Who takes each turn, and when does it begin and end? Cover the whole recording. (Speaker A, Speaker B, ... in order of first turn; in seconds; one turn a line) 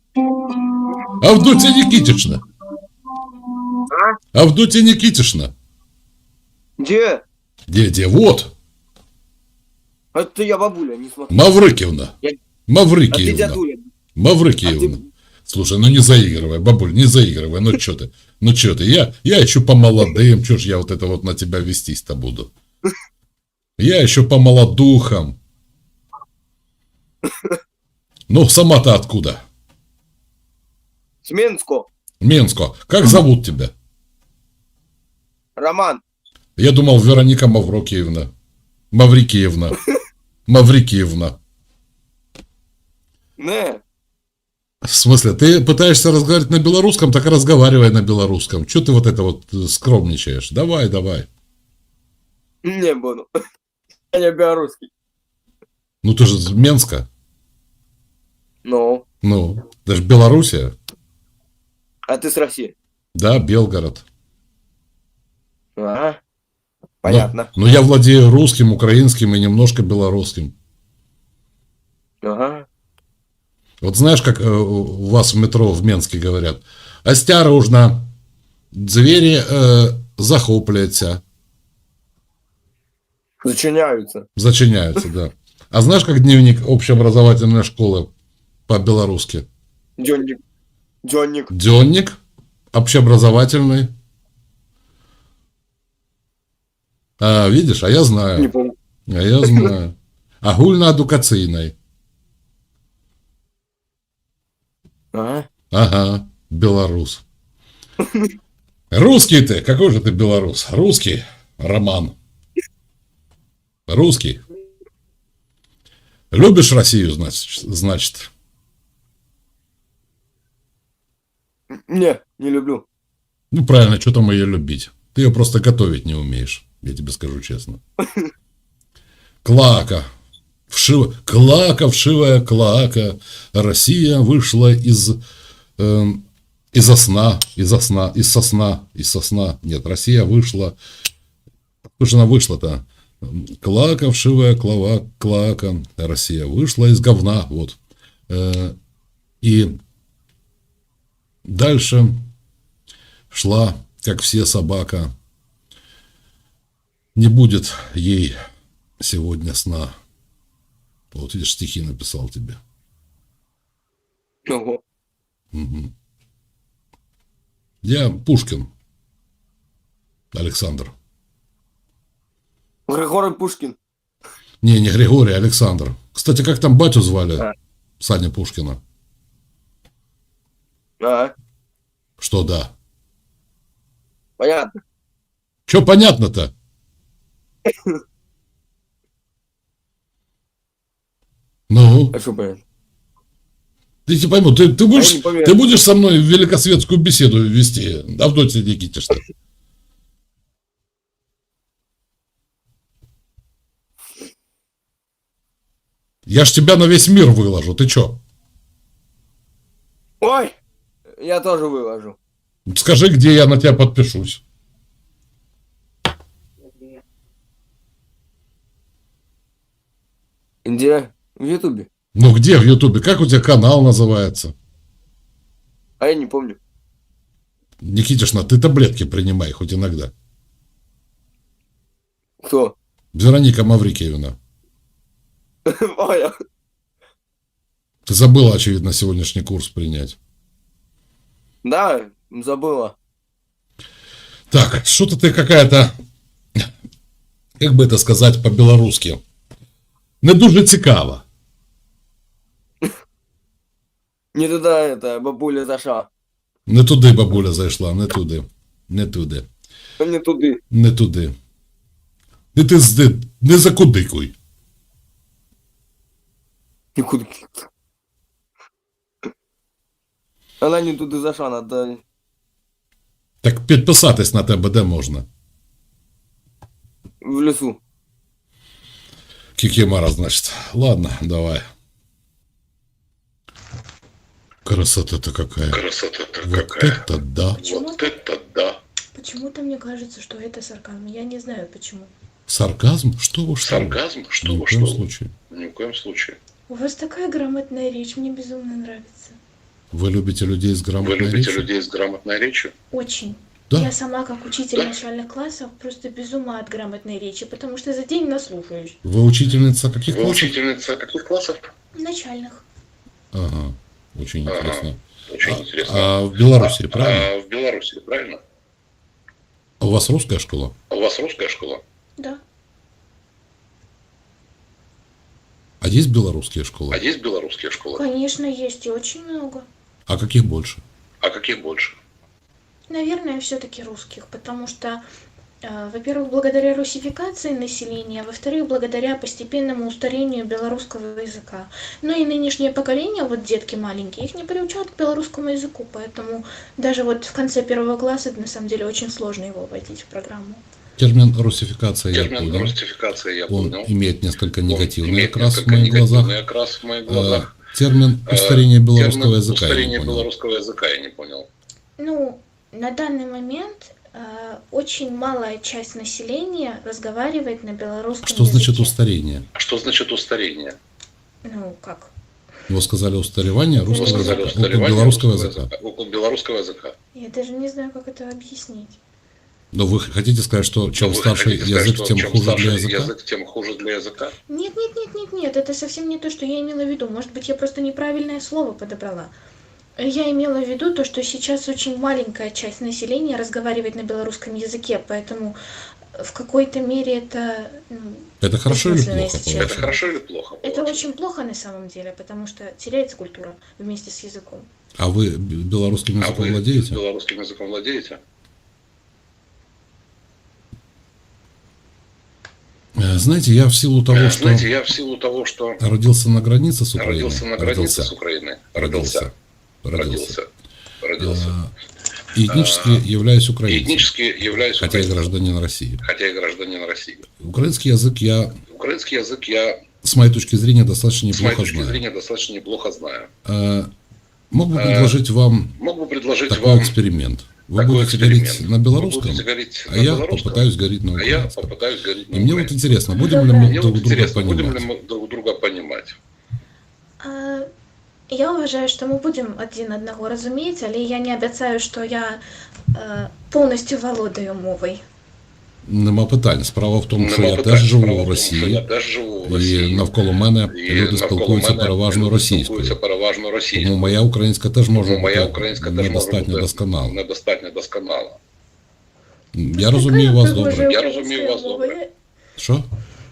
Speaker A: 1.1-2.4
Speaker A: 4.3-5.5
Speaker B: 6.8-7.2
Speaker A: 7.7-8.5
Speaker B: 10.1-11.3
Speaker A: 11.3-12.2
Speaker A: 12.7-13.6
Speaker B: 13.1-13.9
Speaker A: 14.2-22.5
Speaker B: 14.7-15.0
Speaker A: 23.8-25.4
Speaker B: 27.3-27.6
Speaker A: 28.3-29.4
Speaker B: 31.2-31.9
Speaker A: 32.2-33.7
Speaker B: 35.6-36.0
Speaker A: 36.6-38.3
Speaker A: 38.9-39.8
Speaker A: 40.5-41.4
Speaker B: 43.4-43.8
Speaker A: 44.8-51.3
Speaker B: 52.6-53.3
Speaker B: 54.1-54.9
Speaker A: 56.0-57.1
Speaker B: 58.6-59.0
Speaker A: 59.2-60.7
Speaker B: 62.0-62.7
Speaker A: 63.1-64.0
Speaker B: 65.8-66.2
Speaker B: 67.0-67.5
Speaker A: 67.0-70.5
Speaker B: 72.2-72.7
Speaker A: 73.8-78.1
Speaker A: 78.7-81.2
Speaker B: 83.4-84.3
Speaker A: 84.3-88.1
Speaker A: 88.7-89.5
Speaker B: 90.0-90.4
Speaker B: 91.0-91.5
Speaker A: 91.5-92.2
Speaker A: 92.7-93.9
Speaker A: 97.2-98.5
Speaker B: 98.4-98.7
Speaker A: 99.1-101.7
Speaker B: 105.1-105.5
Speaker A: 105.7-107.2
Speaker B: 108.0-108.3
Speaker A: 108.9-112.2
Speaker A: 113.9-114.4
Speaker A: 116.3-118.3
Speaker B: 121.7-122.8
Speaker A: 123.5-127.8
Speaker B: 128.0-128.3
Speaker A: 129.4-130.1
Speaker A: 130.7-135.2
Speaker A: 135.8-140.8
Speaker A: 142.0-147.8
Speaker A: 148.3-148.7
Speaker A: 149.4-149.7
Speaker A: 151.4-152.2
Speaker A: 153.3-155.1
Speaker A: 157.2-158.3
Speaker A: 159.0-159.9
Speaker A: 161.1-162.6
Speaker B: 164.4-164.8
Speaker A: 165.5-165.9
Speaker A: 167.8-168.7
Speaker A: 170.3-170.9
Speaker B: 172.9-173.8
Speaker A: 174.6-177.5
Speaker A: 178.0-178.8
Speaker B: 181.0-181.3
Speaker A: 182.2-182.7
Speaker B: 184.4-184.8
Speaker A: 185.7-186.5
Speaker B: 187.7-188.0
Speaker A: 191.7-192.2
Speaker B: 192.1-192.6
Speaker A: 194.1-199.2
Speaker B: 194.9-195.6
Speaker A: 206.3-208.2
Speaker B: 210.2-210.5
Speaker B: 211.2-212.2
Speaker A: 212.7-214.4
Speaker B: 220.6-221.9
Speaker A: 222.1-224.5
Speaker B: 226.0-226.6
Speaker A: 227.8-230.1
Speaker B: 232.4-232.7
Speaker A: 233.1-234.4
Speaker B: 235.7-236.3
Speaker A: 238.1-240.2
Speaker B: 241.6-242.9
Speaker A: 244.5-245.9
Speaker A: 247.6-249.2
Speaker A: 250.2-251.2
Speaker B: 254.3-256.1
Speaker A: 256.7-259.4
Speaker B: 260.0-260.6
Speaker A: 260.7-261.3
Speaker A: 262.5-264.3
Speaker B: 266.9-267.7
Speaker B: 270.6-272.0
Speaker A: 273.4-275.2
Speaker B: 277.2-277.8
Speaker A: 279.6-281.6
Speaker A: 284.6-285.8
Speaker C: 285.7-287.0
Speaker A: 286.4-287.6
Speaker D: 287.6-288.1
Speaker C: 287.6-288.8
Speaker D: 289.1-292.1
Speaker A: 292.5-295.3
Speaker C: 293.6-296.4
Speaker D: 296.7-299.4
Speaker A: 299.9-301.7
Speaker C: 301.0-302.7
Speaker D: 302.9-309.0
Speaker A: 309.0-310.6
Speaker C: 310.1-311.7
Speaker D: 311.9-312.6
Speaker A: 313.3-317.3
Speaker C: 314.5-318.4
Speaker A: 319.8-320.7
Speaker C: 320.9-321.8
Speaker A: 325.8-327.0
Speaker C: 326.9-328.0
Speaker D: 327.9-329.7
Speaker A: 330.1-330.8
Speaker C: 331.2-332.0
Speaker D: 332.9-335.0
Speaker D: 335.6-350.6
Speaker A: 351.0-352.8
Speaker C: 352.1-353.9
Speaker A: 353.5-356.3
Speaker C: 354.7-357.5
Speaker A: 357.1-360.3
Speaker C: 358.2-361.5
Speaker D: 362.0-368.9
Speaker A: 368.2-369.5
Speaker C: 369.5-370.8
Speaker D: 371.4-372.1
Speaker A: 372.7-375.7
Speaker D: 373.9-374.5
Speaker C: 373.9-376.9
Speaker D: 377.1-379.0
Speaker A: 379.7-383.1
Speaker C: 381.0-384.3
Speaker D: 384.5-389.3
Speaker D: 390.0-395.6
Speaker D: 396.1-404.7
Speaker A: 398.4-399.9
Speaker C: 399.5-401.1
Speaker A: 405.0-407.0
Speaker C: 406.2-408.2
Speaker A: 412.9-414.7
Speaker C: 414.1-415.8
Speaker A: 415.8-418.1
Speaker C: 417.0-419.3
Speaker A: 418.7-419.3
Speaker A: 419.8-420.3
Speaker C: 419.9-420.5
Speaker C: 421.0-421.5
Speaker A: 421.2-421.7
Speaker A: 422.3-424.1
Speaker C: 422.5-423.0
Speaker C: 423.7-425.2
Speaker A: 424.8-426.0
Speaker C: 426.0-427.2
Speaker A: 427.4-428.5
Speaker C: 428.7-429.8
Speaker A: 430.0-432.0
Speaker C: 431.3-433.3
Speaker A: 433.4-433.9
Speaker A: 434.5-435.8
Speaker C: 434.7-435.2
Speaker C: 435.8-436.9
Speaker A: 436.5-441.7
Speaker C: 437.7-442.7
Speaker A: 442.3-444.9
Speaker D: 443.2-443.8
Speaker C: 443.5-446.1
Speaker D: 447.2-447.7
Speaker D: 448.3-455.0
Speaker A: 455.8-458.8
Speaker C: 457.2-460.1
Speaker A: 459.4-463.0
Speaker C: 460.7-464.1
Speaker A: 463.7-467.2
Speaker C: 464.9-468.4
Speaker A: 469.5-470.9
Speaker D: 469.7-472.1
Speaker C: 470.7-472.0
Speaker A: 472.6-472.9